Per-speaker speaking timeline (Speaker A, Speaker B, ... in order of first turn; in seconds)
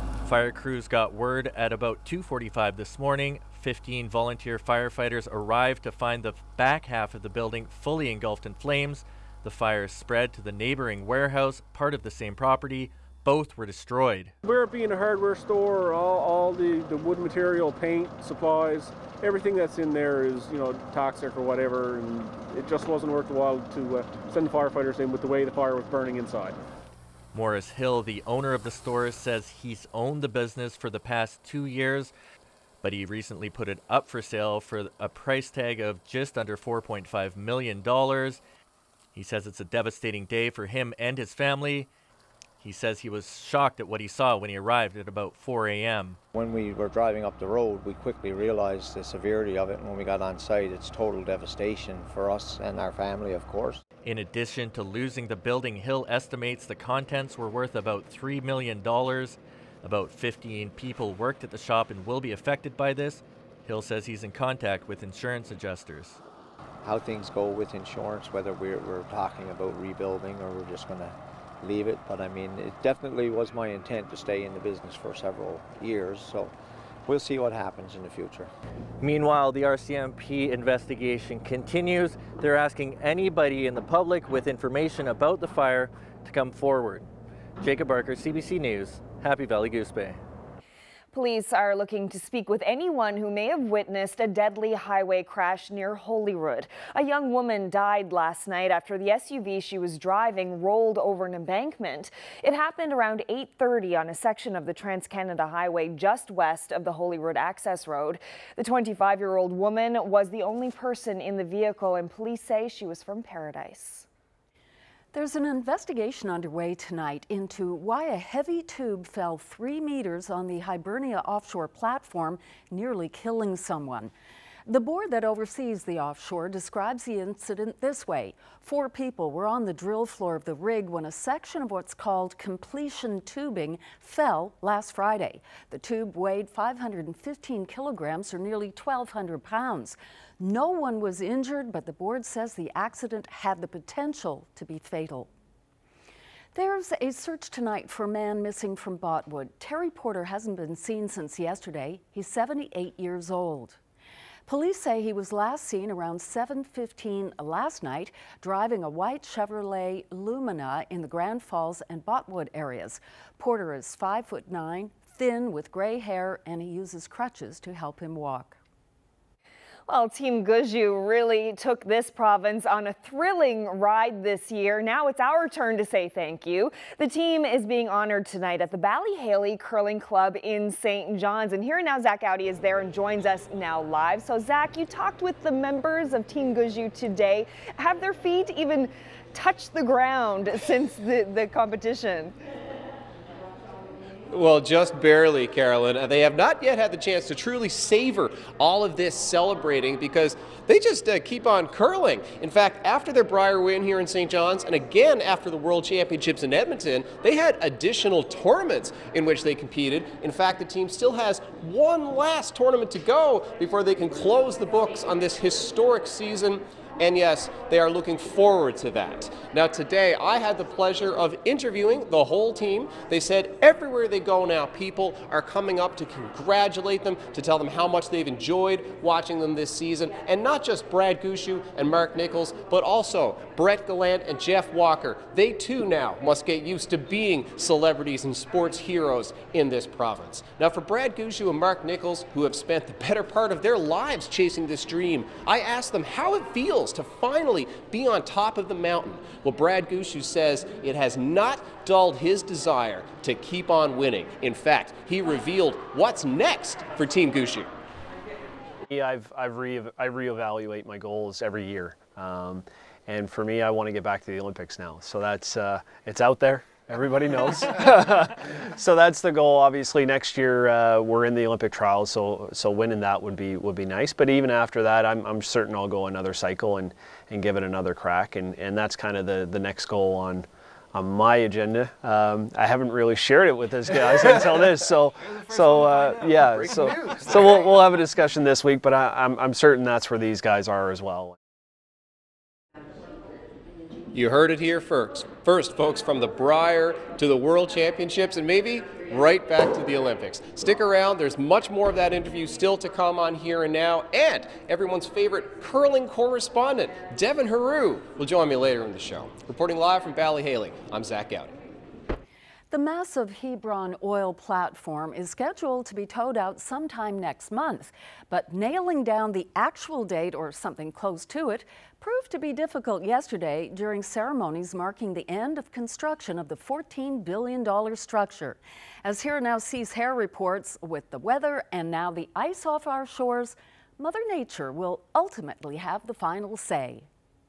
Speaker A: 0.2-14.3, 27.3-32.1, 32.8-38.4, 39.1-41.9, 42.6-46.2, 54.0-66.2, 79.0-87.0, 87.6-90.2
Speaker B: 14.4-26.6
Speaker C: 46.3-53.8, 66.8-76.5, 77.1-78.5
Speaker D: 91.1-114.1, 169.9-192.3
Speaker E: 115.1-124.1, 124.7-145.3, 146.5-153.8, 154.5-168.6, 312.7-337.1
Speaker F: 194.3-257.7, 294.1-311.5
Speaker G: 258.9-291.4